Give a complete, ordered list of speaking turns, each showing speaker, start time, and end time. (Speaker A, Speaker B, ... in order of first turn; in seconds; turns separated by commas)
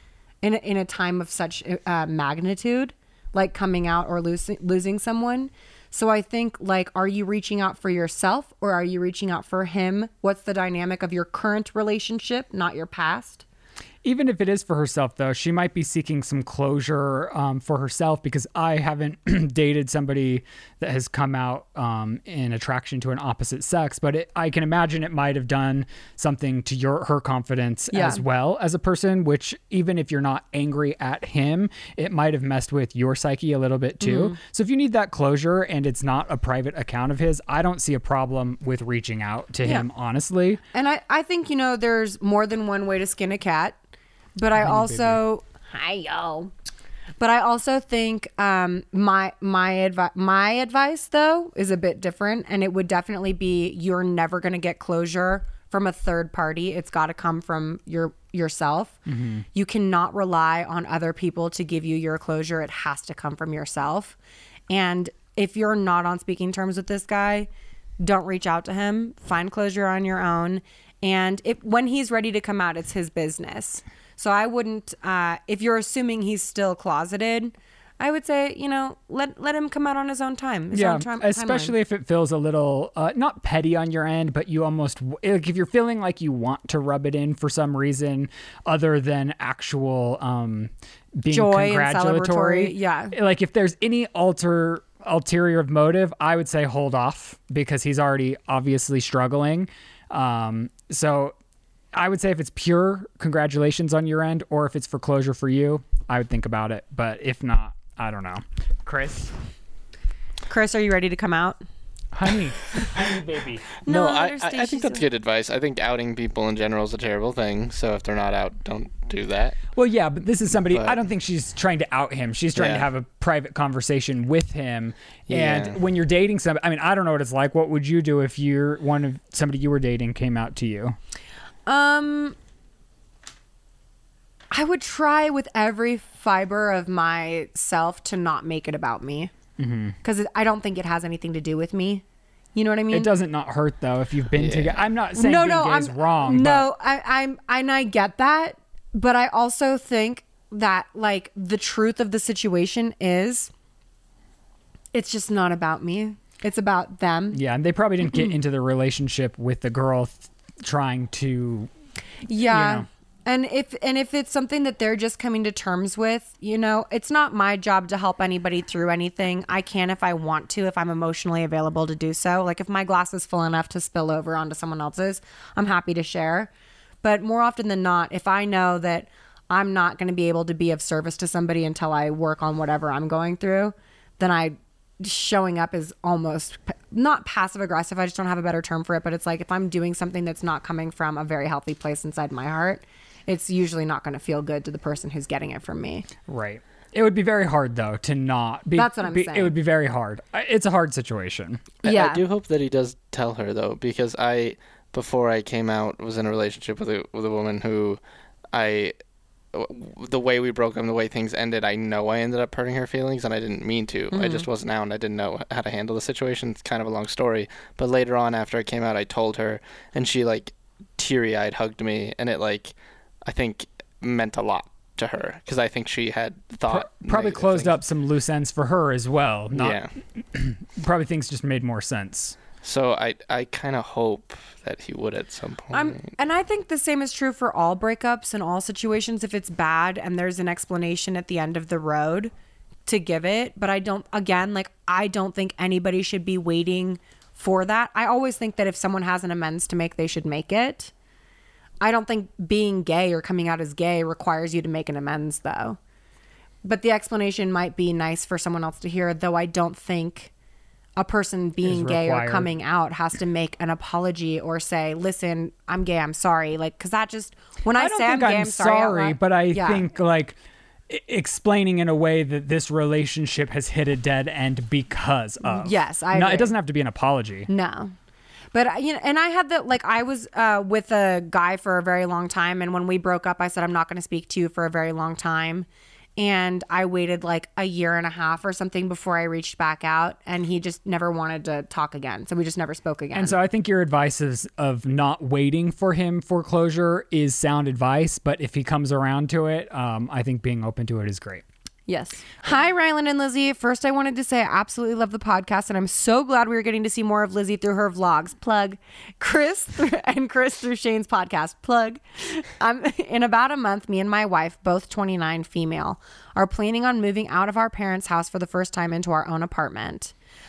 Speaker A: 0.4-13.4, Speaker B: 14.0-40.6, Speaker A: 27.9-28.2, Speaker A: 34.0-34.4, Speaker A: 40.7-43.8, Speaker A: 44.4-46.5, Speaker B: 44.6-45.2, Speaker A: 47.2-59.0, Speaker B: 59.1-59.4, Speaker A: 59.5-64.2, Speaker A: 64.7-67.5, Speaker A: 68.0-81.8, Speaker B: 80.7-101.3, Speaker A: 91.3-93.1, Speaker B: 101.9-109.3, Speaker A: 110.5-111.6, Speaker B: 112.1-113.7, Speaker C: 113.8-119.6, Speaker A: 113.8-115.0, Speaker B: 119.7-130.9, Speaker C: 120.7-121.0, Speaker C: 122.5-122.8, Speaker C: 125.3-125.8, Speaker A: 131.7-132.3, Speaker A: 134.5-139.3, Speaker B: 139.6-139.9, Speaker A: 140.0-142.0, Speaker A: 142.5-143.1, Speaker B: 142.9-146.7, Speaker C: 144.3-144.8, Speaker A: 145.1-153.5, Speaker A: 154.9-157.4, Speaker B: 157.3-161.7, Speaker A: 162.2-176.5, Speaker B: 162.4-162.8, Speaker A: 177.0-196.1, Speaker B: 196.3-201.6, Speaker A: 198.7-199.5, Speaker A: 201.8-202.2, Speaker C: 201.8-208.0, Speaker C: 208.5-208.9, Speaker C: 209.5-227.8, Speaker A: 214.1-214.5, Speaker B: 226.7-232.4, Speaker C: 229.5-229.9, Speaker C: 232.6-236.1, Speaker A: 235.7-242.3, Speaker A: 242.8-250.9, Speaker A: 251.8-255.8, Speaker A: 256.6-260.3, Speaker A: 261.0-269.8, Speaker B: 261.6-262.5, Speaker B: 267.7-270.4, Speaker B: 270.9-277.5, Speaker A: 275.4-276.5, Speaker A: 277.5-277.9, Speaker A: 278.5-293.4, Speaker B: 293.1-301.4, Speaker A: 301.9-320.1